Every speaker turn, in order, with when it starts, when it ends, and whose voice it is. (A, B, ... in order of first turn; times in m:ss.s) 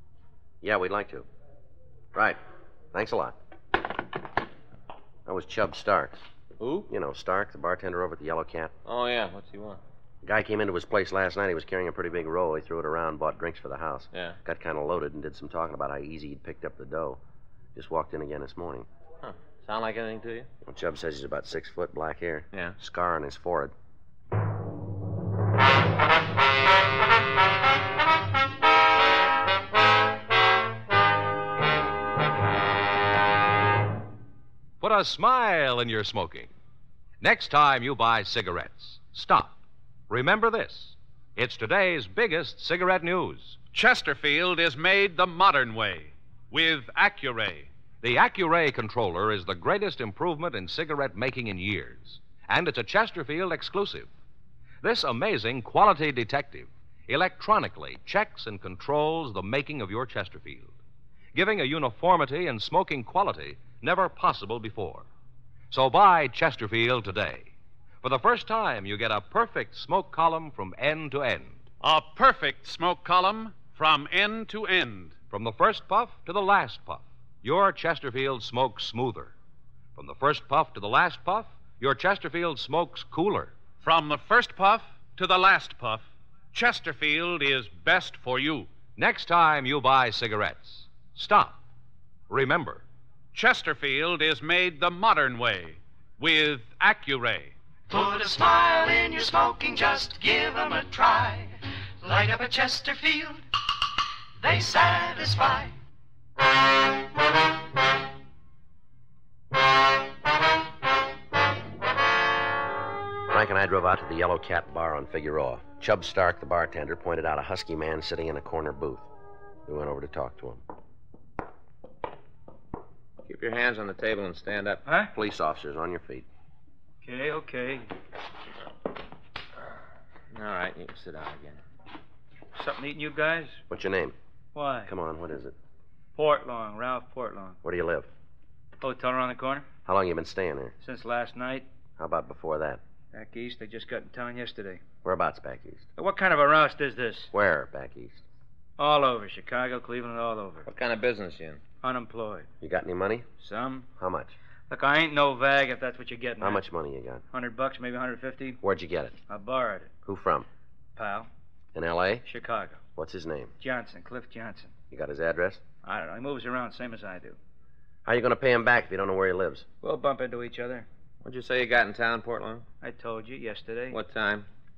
0:00.6-0:01.3 A
0:02.1-0:02.4 A
0:02.9-0:03.4 A
0:05.3-0:06.2 A
0:06.6-0:06.9 B
0:06.9-0:08.7 A
0:08.8-0:09.8 B
0:10.2-0:17.2 A
0:17.8-0:18.9 A
0:19.2-0:20.5 B
0:20.6-0:23.7 A
0:34.8-0:36.5 C
0:37.2-0:39.6 C
0:40.1-0:43.6 C
0:43.7-0:47.7 D
0:48.0-0:54.1 C
0:54.8-1:00.7 C
1:01.3-1:05.1 C
1:05.7-1:07.5 C
1:08.0-1:11.7 C
1:11.8-1:15.2 D
1:15.3-1:19.3 C
1:20.0-1:23.6 C
1:23.8-1:28.8 D
1:29.0-1:31.6 C
1:32.3-1:32.8 C
1:33.3-1:37.6 D
1:37.9-1:43.4 E
1:44.4-1:45.7 E
1:53.3-1:59.1 A
1:59.7-2:00.6 A
2:03.2-2:04.8 B
2:04.9-2:05.1 F
2:05.1-2:06.3 A
2:07.0-2:07.9 F
2:10.3-2:11.6 B
2:12.6-2:13.6 F
2:13.7-2:14.2 A
2:14.6-2:14.9 F
2:14.9-2:15.6 A
2:16.2-2:17.6 F
2:17.6-2:18.1 A
2:18.8-2:19.7 F
2:19.9-2:20.8 A
2:20.8-2:21.7 F
2:22.0-2:22.8 A
2:23.1-2:24.8 F
2:25.0-2:25.9 A
2:26.0-2:27.3 F
2:27.3-2:28.2 A
2:28.8-2:30.7 F
2:30.7-2:31.6 B
2:31.8-2:32.5 F
2:32.6-2:33.3 A
2:33.4-2:33.9 F
2:34.0-2:34.4 A
2:34.7-2:36.6 F
2:36.4-2:37.2 A
2:37.3-2:38.6 F
2:38.6-2:39.2 A
2:39.3-2:39.9 F
2:40.0-2:40.5 A
2:41.0-2:41.3 F
2:41.8-2:42.2 A
2:42.2-2:42.8 F
2:43.0-2:43.5 A
2:43.6-2:44.7 F
2:44.9-2:45.6 A
2:45.8-2:47.4 F
2:48.0-2:49.7 A
2:49.8-2:50.9 F
2:51.2-2:52.7 B
2:52.8-2:54.0 F
2:53.9-2:54.5 B